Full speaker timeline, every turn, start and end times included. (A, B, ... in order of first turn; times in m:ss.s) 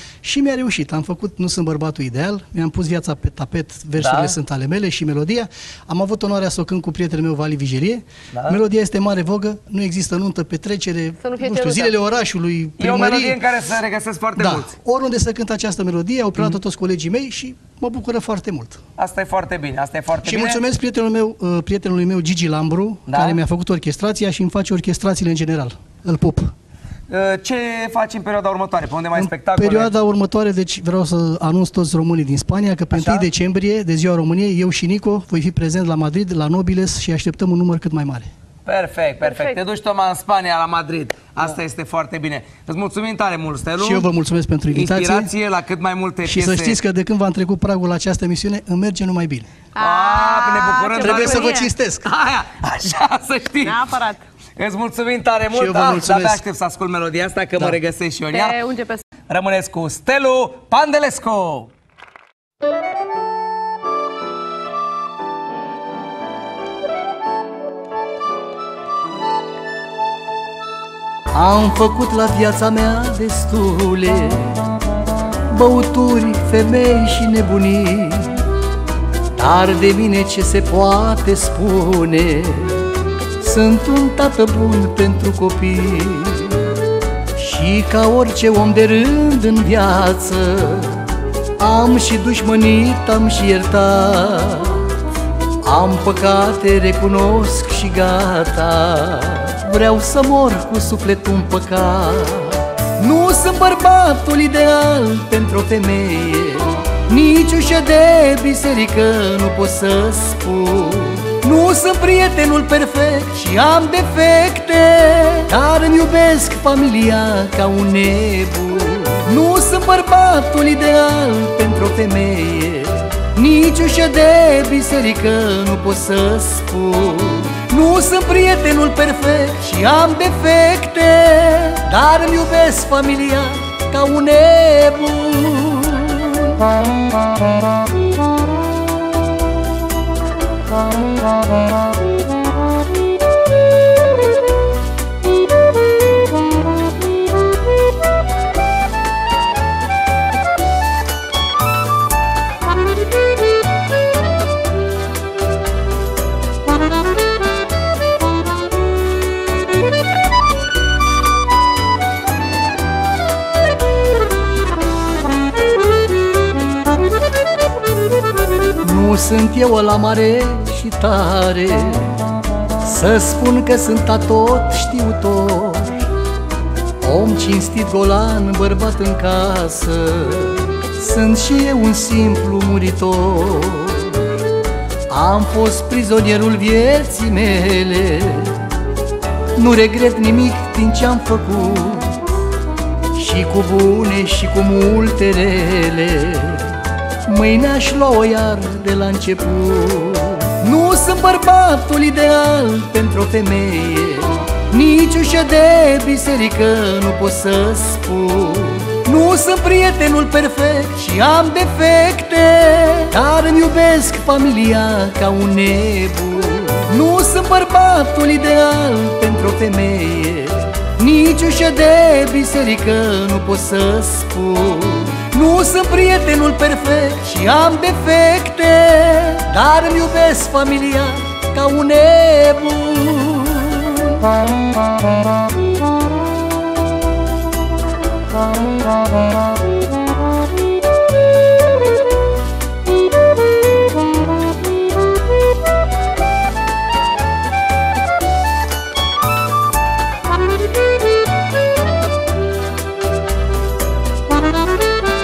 0:00.2-0:13.4 A
0:04.0-0:04.4 B
0:08.3-0:08.6 B
0:11.2-0:11.9 C
0:12.8-0:14.7 B
0:14.4-0:18.8 A
0:19.0-0:20.6 B
0:20.2-0:26.5 A
0:23.1-0:23.4 B
0:27.1-0:29.9 B
0:29.1-0:38.3 A
0:32.9-0:33.3 B
0:38.6-0:44.1 B
0:39.2-0:39.6 C
0:43.8-0:45.3 A
0:44.7-0:46.8 B
0:46.2-0:49.5 A
0:49.8-0:51.7 C
0:49.8-0:54.0 B
0:51.0-0:52.0 A
0:53.6-0:54.2 C
0:54.6-0:58.6 B
0:55.5-0:56.4 A
0:58.3-0:59.0 C
0:59.3-1:01.7 B
1:11.3-1:14.7 A
1:15.5-1:18.5 A
1:19.3-1:26.8 A
1:27.4-1:35.0 A
1:35.6-2:16.6 A
2:48.8-2:52.3 A
2:52.8-2:56.1 A
2:57.0-3:04.4 A
3:05.1-3:08.7 A
3:09.6-3:12.2 A
3:13.1-3:54.3 A